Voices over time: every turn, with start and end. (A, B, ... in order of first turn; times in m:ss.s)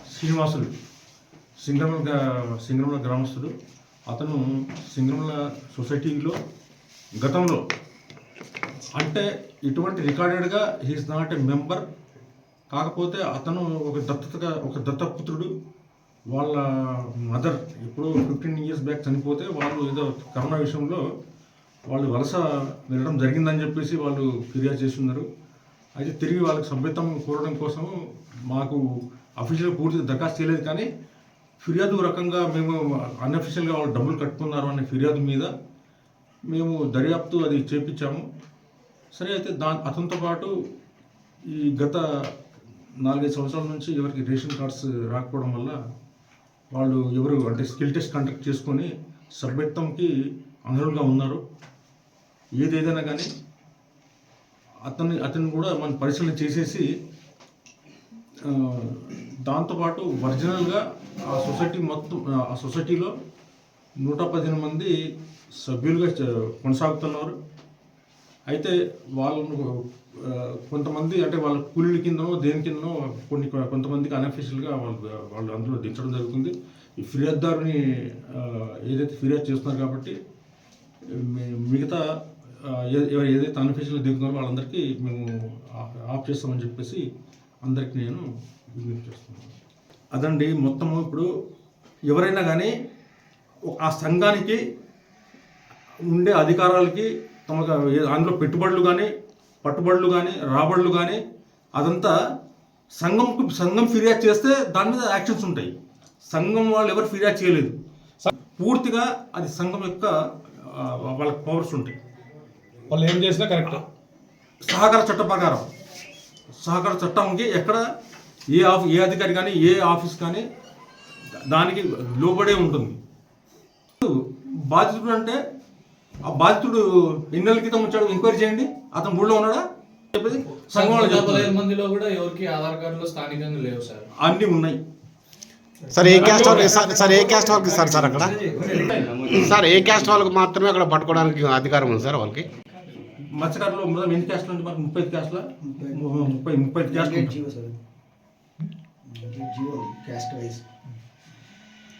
0:00.1-0:00.7 A
0:01.6-0:03.5 A
0:04.1-0:06.4 A
0:07.2-0:07.6 A
0:08.9-0:11.8 A
0:12.7-0:15.5 A
0:16.3-0:21.0 A
0:21.9-0:25.2 A
0:26.0-0:28.0 A
0:28.5-0:28.8 A
0:29.4-0:30.9 A
0:31.6-0:35.5 A
0:36.5-0:38.2 A
0:39.2-0:40.5 A
0:41.5-0:42.0 A
0:43.0-0:45.8 A
0:46.7-0:50.1 A
0:50.7-0:51.4 A
0:52.6-0:53.3 A
0:54.8-0:56.8 A
0:58.5-1:03.1 A
1:04.0-1:04.9 A
1:05.6-1:07.4 A
1:08.5-1:20.2 A
1:21.1-1:22.0 A
1:22.6-1:27.0 A
1:27.6-1:29.6 A
1:30.1-1:31.3 A
1:32.1-1:32.7 A
1:33.7-1:34.6 A
1:36.1-1:39.1 A
1:39.6-1:41.2 A
1:41.7-1:42.1 A
1:43.0-1:45.7 A
1:46.3-1:47.7 A
1:48.5-1:51.9 A
1:52.9-1:53.8 B
1:54.6-1:55.7 A
1:56.6-1:57.8 A
1:58.5-2:00.4 A
2:01.5-2:03.0 A
2:04.7-2:05.4 A
2:06.2-2:11.6 A
2:10.7-2:14.0 C
2:14.2-2:14.8 A
2:15.9-2:22.5 D
2:16.1-2:18.0 B
2:18.9-2:19.2 A
2:23.4-2:27.4 A
2:27.0-2:27.8 E
2:29.2-2:30.6 E